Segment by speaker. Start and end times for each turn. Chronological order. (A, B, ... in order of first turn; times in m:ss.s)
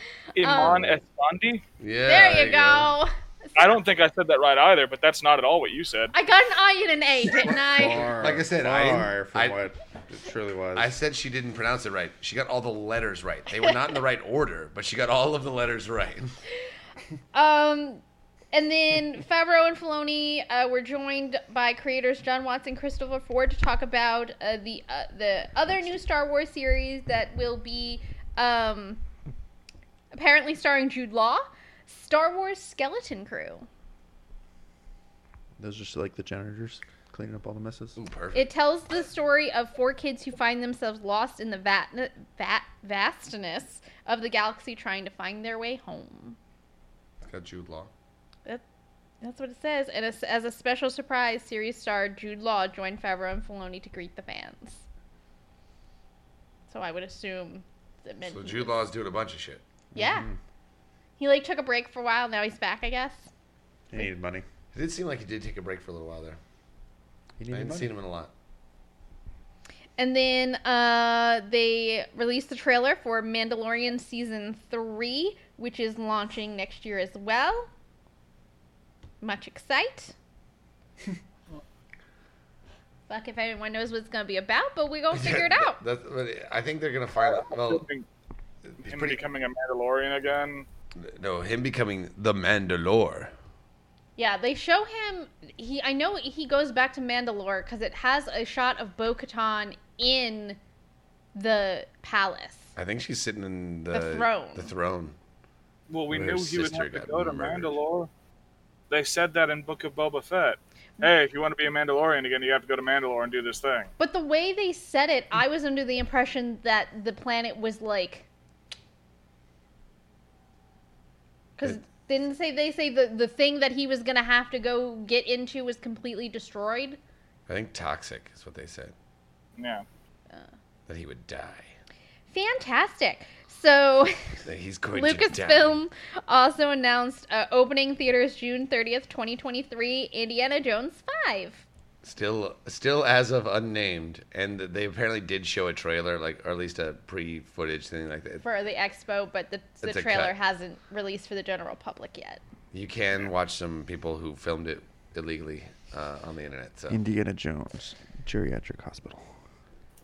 0:00.4-0:01.6 A
0:00.4-0:00.9 B
0:01.8-0:02.9 C
0:02.0-0:03.6 B
0:03.6-0:06.1 A
0:06.1-0:08.1 B
0:07.7-0:10.9 D
0:08.1-0:09.6 C
0:10.8-0:16.3 C
0:17.3-0:18.0 B
0:18.5-0:29.0 B
0:30.1-0:33.7 B
0:35.6-0:38.0 D
0:38.0-0:38.5 C
0:38.3-0:46.4 B
0:47.2-0:47.9 C
0:49.2-0:54.9 B
0:56.7-0:58.8 B
0:58.2-0:59.6 C
0:59.9-1:00.3 B
0:59.9-1:00.4 D
1:01.2-1:03.3 B
1:03.9-1:04.4 D
1:04.7-1:06.4 C
1:07.4-1:07.9 D
1:07.5-1:08.3 C
1:10.0-1:17.7 B
1:19.2-1:20.2 B
1:23.1-1:25.8 B
1:25.1-1:27.9 C
1:27.2-1:28.1 A
1:28.7-1:29.2 C
1:28.9-1:30.6 A
1:31.0-1:33.3 C
1:34.2-1:40.6 B
1:41.4-1:42.7 B
1:42.8-1:45.2 C
1:43.9-1:44.7 B
1:45.9-1:48.1 A
1:46.1-1:47.8 C
1:48.9-1:53.9 A
1:54.0-1:58.3 B
2:01.6-2:07.0 B
2:07.5-2:08.9 C
2:09.6-2:09.8 A
2:10.9-2:11.7 C
2:12.3-2:14.4 B
2:14.4-2:15.8 C
2:14.9-2:21.6 B
2:22.0-2:28.4 C
2:28.4-2:32.4 B
2:29.8-2:30.3 C
2:32.7-2:37.0 C
2:36.9-2:39.3 D